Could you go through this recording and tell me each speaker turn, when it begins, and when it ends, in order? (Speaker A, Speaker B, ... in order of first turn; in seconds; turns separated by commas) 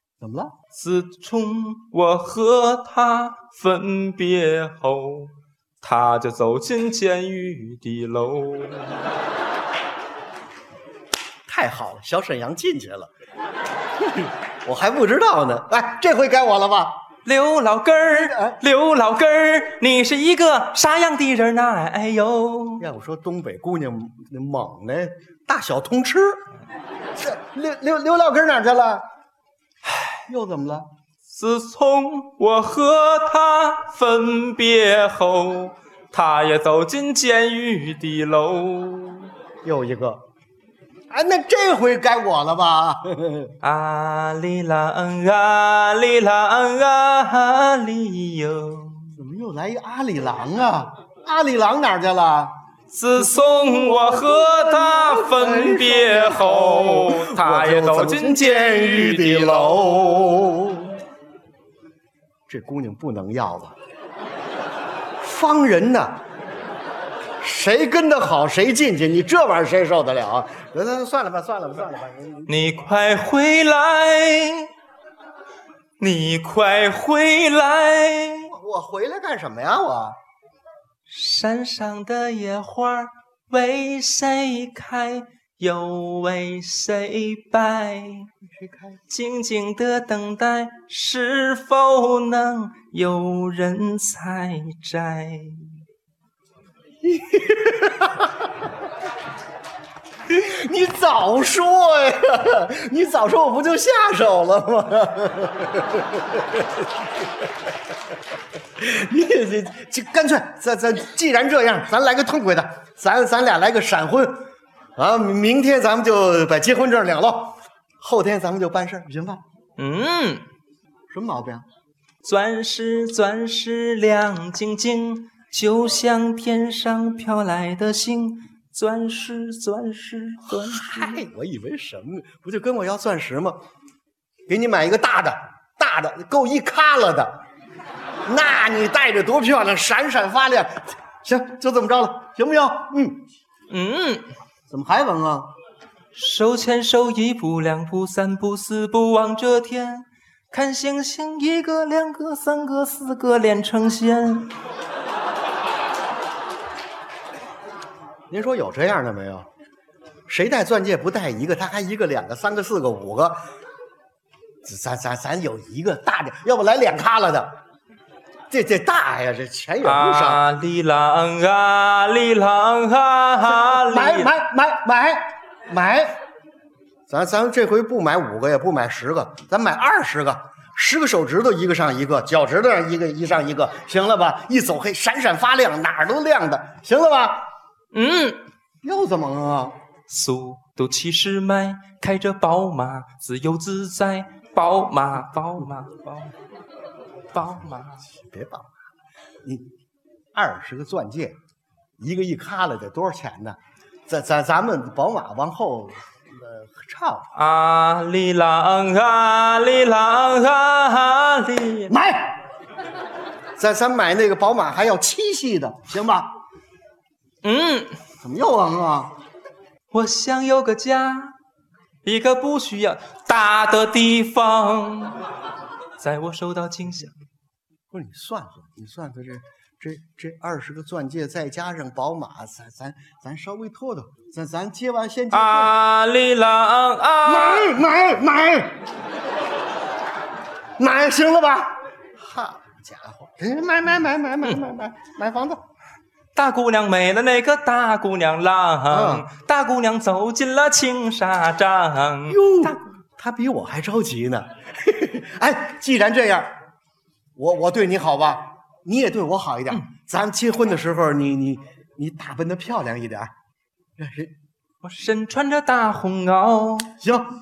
Speaker A: 0.2-0.5, Speaker B: 0.7-9.0, Speaker A: 11.5-13.1, Speaker A: 14.0-16.9, Speaker B: 17.2-22.8, Speaker A: 18.1-18.6, Speaker A: 22.8-26.4, Speaker A: 27.2-29.0, Speaker B: 29.9-30.2, Speaker A: 30.3-30.9, Speaker B: 31.2-39.3, Speaker A: 39.6-40.2, Speaker A: 41.1-43.5, Speaker B: 43.6-49.1, Speaker A: 49.2-52.5, Speaker B: 52.9-59.9, Speaker A: 53.1-61.0, Speaker A: 62.5-63.8, Speaker A: 65.2-66.2, Speaker A: 67.4-72.5, Speaker B: 72.5-74.7, Speaker B: 76.0-78.5, Speaker A: 78.5-80.2, Speaker B: 81.1-88.3, Speaker A: 88.4-89.0, Speaker B: 89.1-95.7, Speaker A: 97.0-98.3, Speaker A: 100.3-106.9, Speaker A: 108.8-114.4, Speaker A: 115.0-119.4, Speaker B: 119.8-120.4, Speaker A: 121.1-121.6, Speaker B: 122.2-131.2, Speaker A: 130.4-133.6, Speaker A: 134.5-137.3, Speaker A: 138.3-143.2, Speaker B: 143.7-144.3, Speaker A: 144.7-145.5, Speaker B: 146.1-154.5, Speaker A: 158.3-159.5, Speaker A: 160.3-163.4, Speaker A: 164.6-167.5, Speaker A: 168.5-170.4, Speaker B: 169.8-174.3, Speaker A: 173.5-176.2, Speaker A: 177.1-187.5, Speaker B: 187.9-188.4, Speaker A: 188.8-189.8, Speaker B: 190.1-196.3, Speaker B: 197.3-198.0, Speaker A: 198.0-198.7, Speaker A: 200.3-201.3, Speaker A: 202.0-203.6, Speaker A: 204.1-207.3, Speaker B: 207.3-211.9, Speaker A: 211.9-212.4, Speaker A: 213.6-216.3, Speaker B: 217.4-217.9, Speaker A: 218.2-219.1, Speaker B: 219.9-221.3, Speaker B: 222.0-225.2, Speaker B: 226.0-227.1, Speaker A: 227.9-235.8, Speaker B: 235.3-237.8, Speaker A: 237.2-238.8, Speaker A: 240.8-245.6, Speaker B: 246.3-252.8, Speaker A: 248.9-249.3, Speaker A: 252.3-256.5, Speaker A: 257.4-263.3, Speaker A: 264.0-264.3, Speaker B: 264.8-266.9, Speaker A: 267.0-267.2